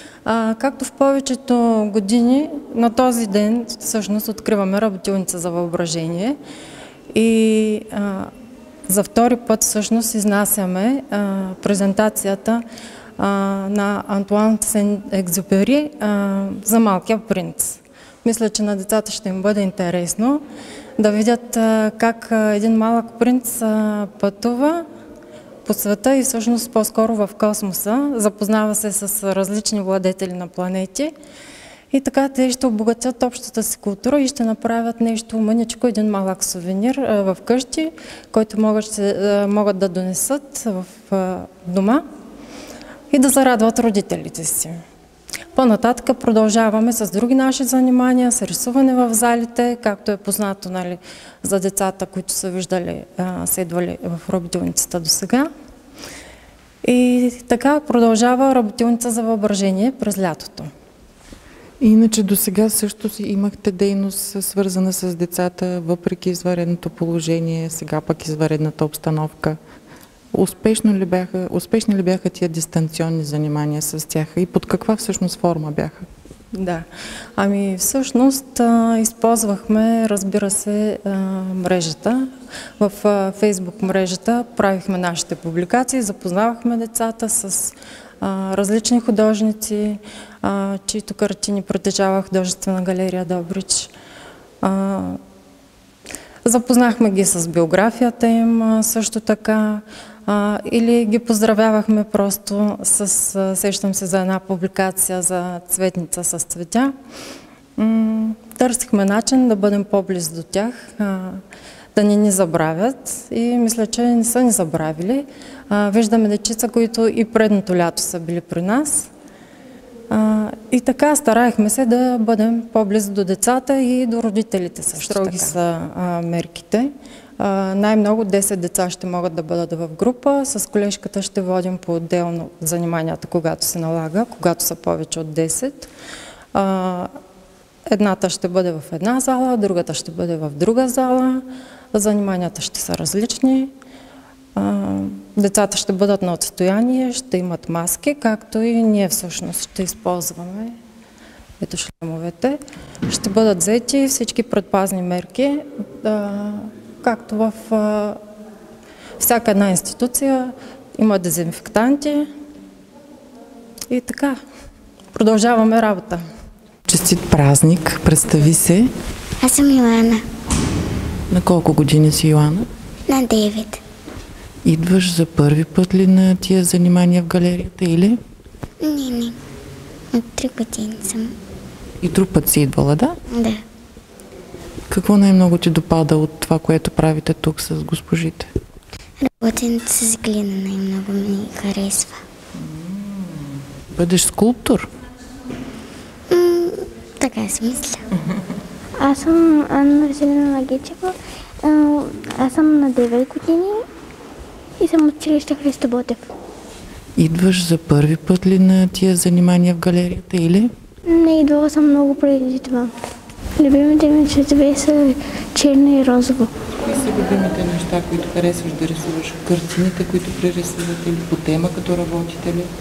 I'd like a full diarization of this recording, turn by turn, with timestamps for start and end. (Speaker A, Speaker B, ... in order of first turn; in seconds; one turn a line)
Speaker A: 0.2-6.4
Speaker A: 7.1-8.3
Speaker A: 8.9-12.6
Speaker A: 13.2-20.4
Speaker A: 21.0-24.9
Speaker A: 25.6-31.1
Speaker A: 31.9-42.0
Speaker A: 43.1-44.8
Speaker A: 45.5-55.5
Speaker A: 56.8-60.7
Speaker B: 61.8-69.6
Speaker B: 70.3-76.1
Speaker A: 76.5-76.9
Speaker A: 77.4-82.3
Speaker A: 82.8-93.9
Speaker A: 94.6-95.2
Speaker A: 96.5-106.9
Speaker A: 107.8-111.4
Speaker A: 112.0-119.1
Speaker A: 120.1-135.9
Speaker B: 125.1-125.5
Speaker A: 136.5-137.1
Speaker A: 137.9-143.7
Speaker A: 144.6-150.8
Speaker A: 151.6-158.2
Speaker A: 159.2-162.3
Speaker A: 163.9-164.4
Speaker A: 165.1-166.2
Speaker B: 166.9-168.9
Speaker C: 169.4-170.2
Speaker B: 171.3-172.7
Speaker C: 173.1-173.8
Speaker B: 174.7-178.2
Speaker C: 178.8-179.4
Speaker C: 180.1-181.3
Speaker B: 182.0-183.2
Speaker C: 183.3-183.6
Speaker B: 184.9-188.5
Speaker C: 189.2-192.2
Speaker B: 192.6-194.9
Speaker C: 196.3-198.1
Speaker D: 199.0-203.8
Speaker D: 204.8-206.3
Speaker B: 207.2-210.7
Speaker D: 211.1-212.9
Speaker D: 213.6-216.5
Speaker B: 216.8-222.7